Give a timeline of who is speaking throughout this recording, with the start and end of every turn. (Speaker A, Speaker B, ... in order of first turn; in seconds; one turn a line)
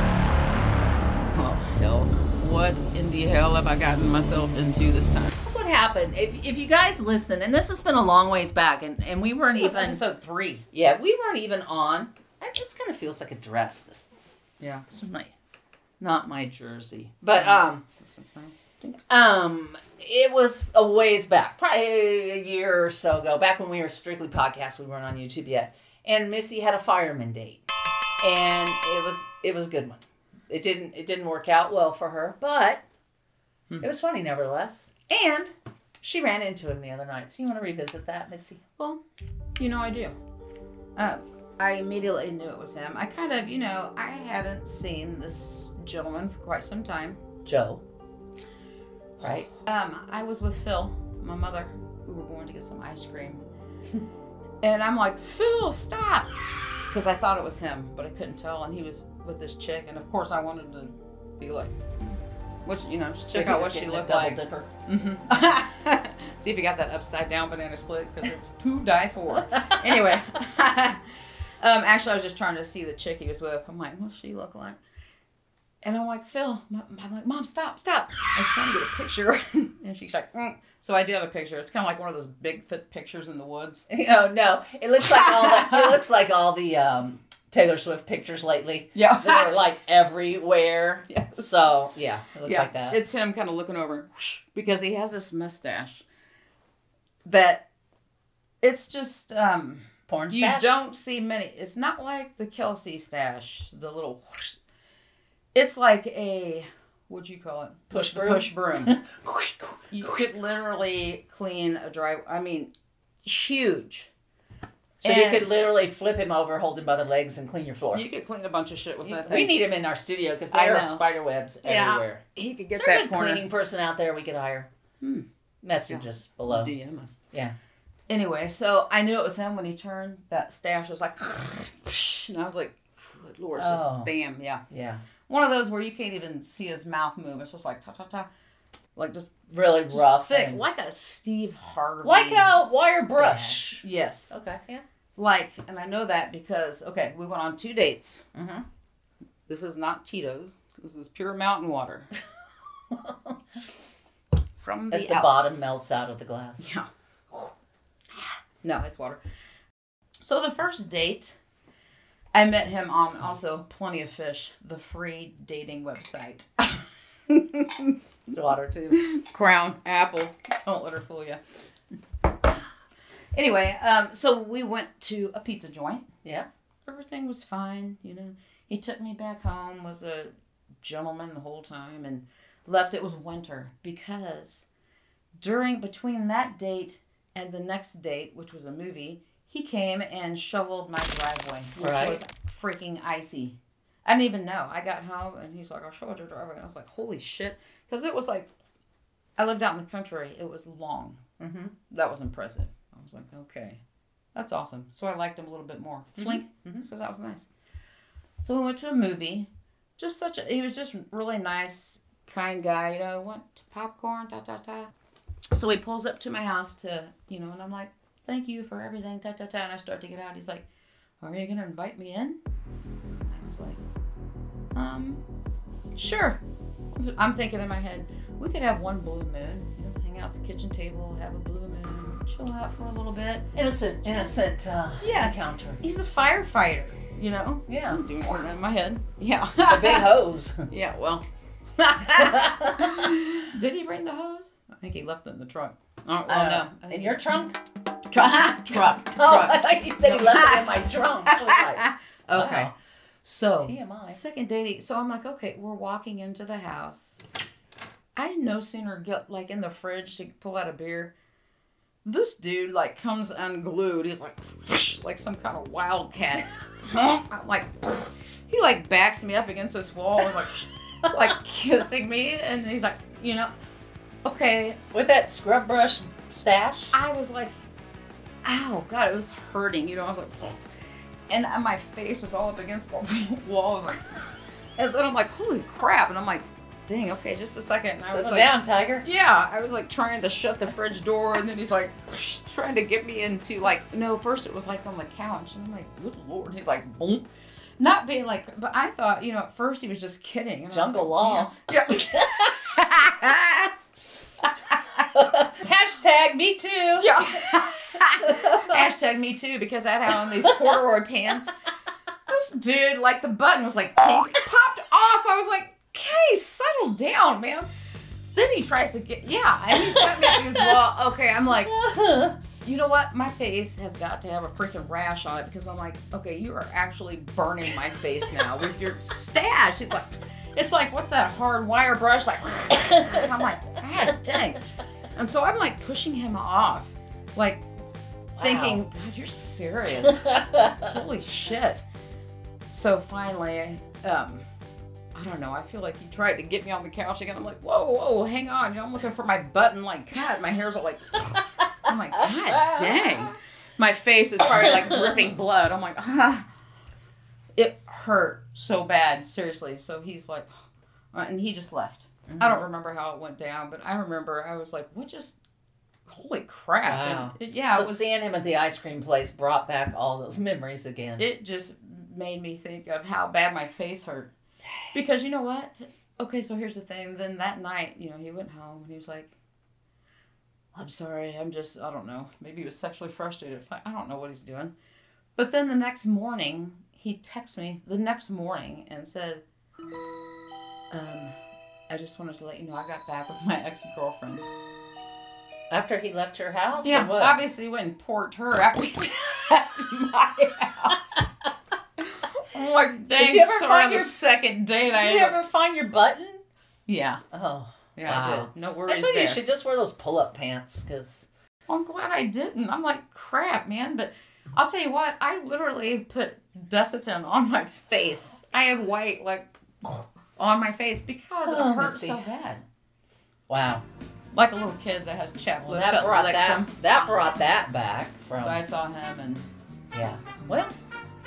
Speaker A: 1.4-5.4
Speaker B: 5.4-10.0
Speaker A: 9.5-10.7
Speaker B: 10.7-14.1
Speaker A: 14.6-14.8
Speaker B: 14.9-15.3
Speaker B: 16.0-17.8
Speaker A: 17.3-18.6
Speaker B: 18.8-27.6
Speaker B: 28.2-32.8
Speaker B: 33.8-38.6
Speaker A: 39.6-40.2
Speaker A: 41.0-47.2
Speaker B: 47.5-47.8
Speaker B: 49.2-49.5
Speaker A: 49.5-53.4
Speaker A: 54.6-56.3
Speaker A: 56.9-61.8
Speaker A: 62.6-71.0
Speaker B: 63.3-64.7
Speaker A: 71.6-74.8
Speaker A: 75.8-83.9
Speaker B: 83.9-93.0
Speaker A: 85.2-85.9
Speaker A: 89.0-89.6
Speaker A: 91.1-91.5
Speaker A: 92.5-96.0
Speaker A: 97.2-97.7
Speaker A: 98.6-104.6
Speaker B: 100.1-100.8
Speaker A: 105.5-109.0
Speaker B: 107.9-110.2
Speaker A: 109.9-112.7
Speaker A: 113.2-114.1
Speaker A: 115.0-115.6
Speaker B: 115.0-118.0
Speaker A: 117.9-119.6
Speaker B: 119.0-122.2
Speaker A: 120.5-121.0
Speaker A: 121.6-123.5
Speaker B: 122.7-124.7
Speaker A: 125.0-125.3
Speaker B: 125.6-126.7
Speaker A: 125.9-127.2
Speaker A: 128.1-134.6
Speaker B: 133.6-134.1
Speaker B: 134.7-135.0
Speaker A: 135.3-138.3
Speaker A: 138.9-144.3
Speaker B: 139.5-140.6
Speaker B: 142.0-144.8
Speaker A: 145.2-148.3
Speaker B: 148.3-148.7
Speaker A: 149.5-152.1
Speaker B: 152.9-153.3
Speaker A: 154.6-156.0
Speaker B: 154.9-156.7
Speaker A: 156.6-157.5
Speaker A: 158.6-159.2
Speaker A: 160.2-161.4
Speaker A: 162.3-167.9
Speaker B: 168.3-169.1
Speaker A: 168.9-171.4
Speaker A: 173.3-176.1
Speaker A: 176.9-184.7
Speaker A: 185.4-198.5
Speaker B: 191.8-192.2
Speaker A: 199.4-201.2
Speaker B: 201.4-201.7
Speaker A: 201.9-203.8
Speaker A: 204.3-207.5
Speaker B: 206.2-206.8
Speaker A: 208.4-214.9
Speaker A: 215.5-220.7
Speaker A: 221.2-222.4
Speaker A: 223.1-223.8
Speaker A: 224.8-225.2
Speaker A: 225.9-226.4
Speaker A: 226.9-233.5
Speaker B: 233.5-235.8
Speaker A: 235.0-240.1
Speaker B: 237.7-238.0
Speaker B: 239.7-240.7
Speaker A: 240.7-241.2
Speaker A: 241.8-247.2
Speaker B: 242.1-243.1
Speaker B: 246.3-247.6
Speaker A: 248.1-252.7
Speaker B: 248.1-252.7
Speaker A: 253.2-257.2
Speaker B: 253.6-254.2
Speaker A: 258.2-261.1
Speaker A: 262.1-273.5
Speaker A: 274.2-274.8
Speaker B: 274.9-276.9
Speaker A: 276.9-277.6
Speaker A: 278.4-280.6
Speaker A: 281.3-284.2
Speaker A: 284.8-297.2
Speaker B: 288.0-289.1
Speaker A: 297.8-303.7
Speaker B: 300.7-302.6
Speaker B: 305.1-307.6
Speaker A: 307.0-311.5
Speaker B: 308.2-308.9
Speaker A: 312.3-317.7
Speaker A: 318.4-321.7
Speaker B: 319.8-320.8
Speaker B: 321.6-322.4
Speaker A: 322.6-337.6
Speaker B: 332.8-333.3
Speaker B: 338.4-338.8
Speaker A: 338.4-341.8
Speaker B: 340.4-340.7
Speaker A: 342.7-344.5
Speaker A: 345.1-356.5
Speaker B: 352.5-353.3
Speaker A: 357.6-360.5
Speaker A: 361.1-365.4
Speaker B: 362.3-362.6
Speaker A: 366.1-368.1
Speaker B: 366.9-371.2
Speaker A: 371.2-374.3
Speaker A: 374.9-379.3
Speaker A: 380.8-384.7
Speaker A: 385.4-389.4
Speaker A: 390.9-391.4
Speaker A: 391.9-394.5
Speaker B: 395.7-397.4
Speaker A: 396.8-401.2
Speaker A: 402.0-405.4
Speaker B: 403.1-404.2
Speaker B: 404.9-406.4
Speaker A: 406.9-407.2
Speaker B: 407.3-411.3
Speaker A: 408.0-409.4
Speaker A: 411.7-422.4
Speaker B: 421.5-422.6
Speaker B: 423.5-423.9
Speaker A: 424.3-426.8
Speaker B: 425.6-428.6
Speaker A: 428.4-429.5
Speaker B: 429.9-430.8